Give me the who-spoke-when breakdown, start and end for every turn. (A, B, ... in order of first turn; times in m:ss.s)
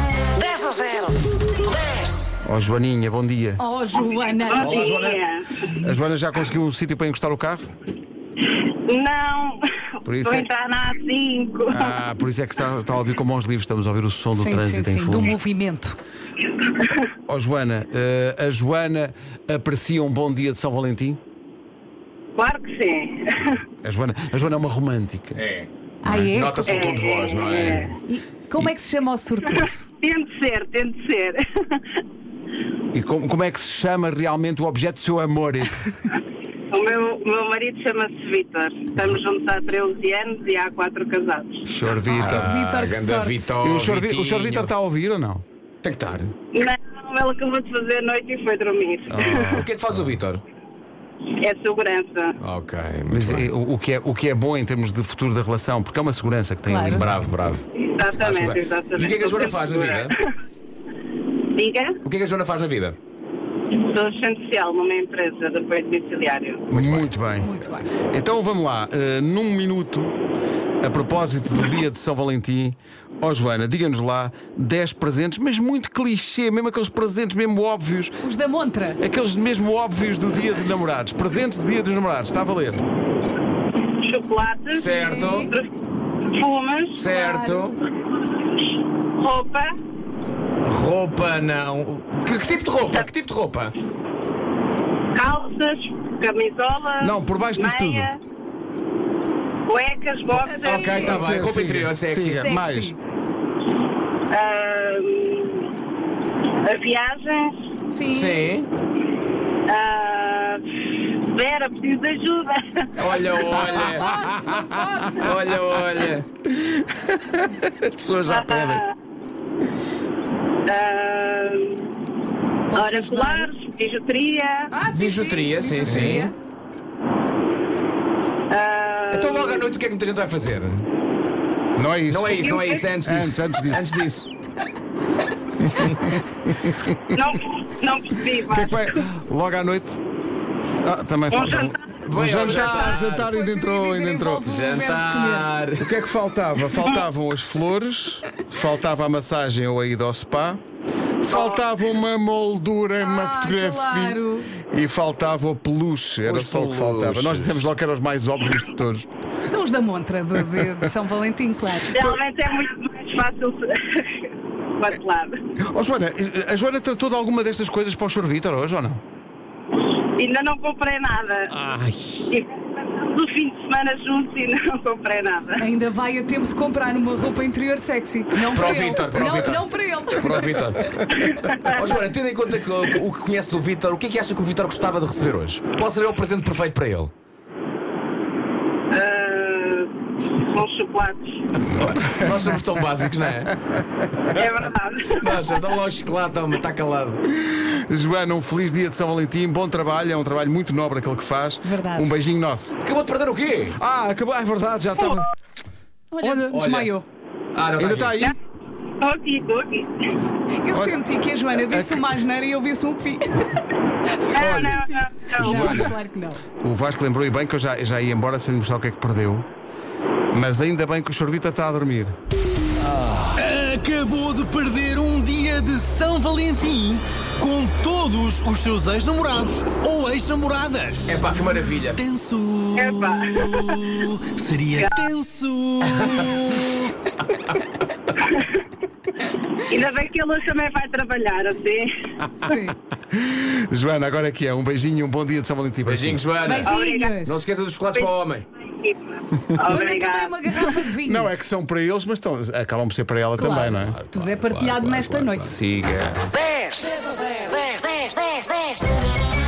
0:00.4-0:02.2 A
0:02.4-0:03.6 B
0:03.6-0:04.9 C
0:04.5-0:05.5 D
0:04.6-0:05.2 E
0:05.8-0:07.7 B
0:08.9-0:09.6 D
0:10.0-0:10.5 B
0:10.2-0:12.0 D
0:11.7-0:15.4 B
0:14.3-0:16.0 C
0:17.3-0:21.2 B
0:22.4-0:23.6 D
0:23.8-0:25.4 B
0:25.4-0:25.7 E
0:26.0-0:26.9 C
0:26.0-0:26.3 B
0:26.3-0:28.0 E
0:26.7-0:27.9 D
0:28.0-0:29.9 C
0:30.0-0:31.8 D
0:32.9-0:35.8 B
0:36.7-0:41.6 D
0:41.6-0:42.7 B
0:42.1-0:43.5 C
0:42.1-0:44.7 E
0:43.6-0:45.4 B
0:45.8-0:46.3 E
0:46.5-0:49.5 D
0:49.1-0:49.7 B
0:49.4-0:50.4 E
0:51.4-0:52.4 D
0:52.4-0:53.5 E
0:53.1-0:57.2 B
0:56.7-0:57.1 C
0:56.9-1:00.2 E
0:57.8-1:00.2 D
1:01.6-1:02.0 D
1:02.0-1:03.0 E
1:03.8-1:06.6 D
1:06.7-1:07.1 E
1:06.7-1:10.2 B
1:07.4-1:07.9 C
1:10.8-1:18.2 B
1:18.2-1:19.0 C
1:19.0-1:22.8 B
1:24.0-1:25.7 D
1:24.7-1:25.5 E
1:24.9-1:25.5 C
1:26.3-1:27.0 D
1:27.0-1:27.8 E
1:27.0-1:27.8 C
1:29.2-1:29.7 D
1:30.6-1:33.7 E
1:35.1-1:38.2 D
1:37.0-1:38.1 B
1:39.7-1:41.2 D
1:40.3-1:41.3 C
1:40.6-1:42.4 E
1:41.1-1:42.9 B
1:42.4-1:43.0 C
1:44.3-1:45.7 D
1:46.6-1:47.6 D
1:47.9-1:48.5 C
1:48.1-1:48.7 E
1:49.7-1:50.6 D
1:51.3-1:53.3 D
1:53.0-1:54.1 E
1:53.8-1:55.3 C
1:55.1-1:56.3 E
1:56.6-1:58.8 B
1:58.3-1:58.9 D
2:00.7-2:01.8 D
2:02.7-2:03.5 C
2:02.7-2:04.7 D
2:04.7-2:06.3 C
2:04.9-2:06.3 E
2:05.8-2:06.3 B
2:08.5-2:09.7 D
2:09.1-2:10.9 E
2:11.8-2:14.0 B
2:12.1-2:14.3 E
2:12.4-2:12.9 D
2:15.6-2:15.9 B
2:15.8-2:16.1 E
2:16.5-2:17.2 B
2:17.1-2:19.0 D
2:18.5-2:20.0 B
2:20.8-2:24.5 B
2:21.3-2:21.8 D
2:22.1-2:23.3 E
2:22.6-2:25.5 C
2:24.5-2:25.9 E
2:25.8-2:30.6 B
2:31.2-2:39.1 B
2:31.3-2:31.7 D
2:33.0-2:34.6 C
2:36.2-2:37.7 E
2:39.4-2:42.0 C
2:41.9-2:44.2 D
2:44.8-2:45.3 D
2:45.6-2:49.0 B
2:50.2-2:51.5 D
2:51.7-2:52.2 B
2:52.3-2:55.6 D
2:55.6-3:00.6 C
2:58.5-2:59.6 E
3:00.2-3:01.0 E
3:01.3-3:01.8 D
3:01.6-3:07.1 E
3:08.9-3:11.2 D
3:11.6-3:13.6 E
3:14.4-3:15.4 D
3:15.1-3:17.2 E
3:17.3-3:22.8 B
3:21.6-3:22.2 C
3:22.8-3:23.8 E
3:23.7-3:25.3 B
3:26.1-3:27.1 C
3:26.2-3:26.6 B
3:26.5-3:26.9 E
3:27.5-3:28.2 E
3:27.8-3:28.3 B
3:29.0-3:29.9 D
3:30.6-3:34.8 C
3:30.7-3:32.2 B
3:34.4-3:34.8 B
3:34.4-3:35.9 D
3:35.4-3:36.4 C
3:35.4-3:36.0 B
3:35.4-3:35.9 E
3:36.6-3:39.5 B
3:40.3-3:42.2 B
3:43.3-3:51.2 F
3:51.1-3:52.0 E
3:51.9-3:56.9 F
3:52.8-3:53.8 D
3:59.7-4:01.9 D
4:02.4-4:02.8 C
4:03.1-4:06.2 B
4:05.8-4:08.5 E
4:06.4-4:07.4 C
4:06.6-4:07.2 D
4:09.6-4:10.6 D
4:09.7-4:11.3 C
4:11.0-4:14.0 B
4:13.4-4:15.6 C
4:13.5-4:16.3 E
4:16.4-4:18.9 A